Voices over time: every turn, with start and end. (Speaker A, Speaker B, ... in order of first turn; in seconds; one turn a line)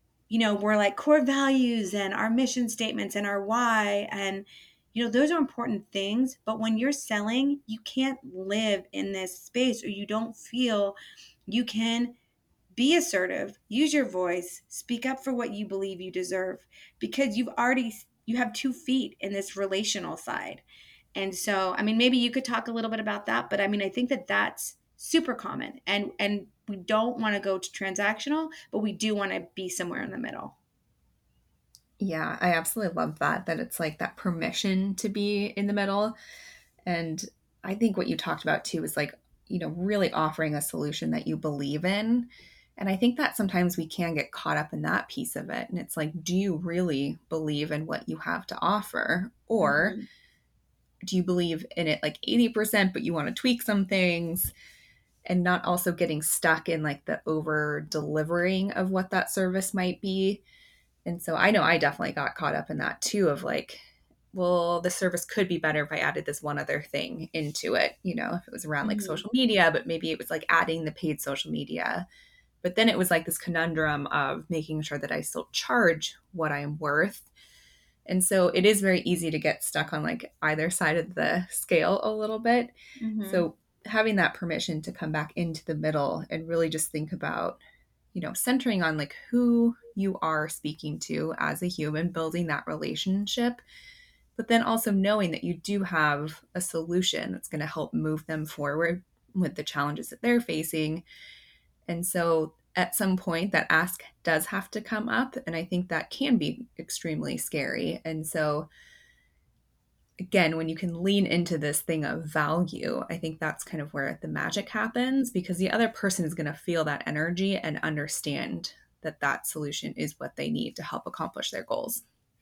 Speaker A: 0.3-11.0
Speaker A: 11.5-12.2
Speaker A: 12.7-20.6
Speaker A: 21.1-30.6
Speaker B: 32.0-36.1
Speaker B: 36.9-50.0
Speaker A: 49.6-50.1
Speaker B: 51.0-54.5
Speaker B: 55.3-60.4
Speaker B: 61.0-63.8
Speaker B: 64.3-72.0
Speaker A: 68.8-69.2
Speaker B: 72.6-77.3
Speaker B: 78.1-82.7
Speaker A: 83.0-83.5
Speaker B: 83.2-87.6
Speaker B: 88.1-93.6
Speaker B: 94.4-101.0
Speaker B: 101.9-108.7
Speaker B: 110.2-122.0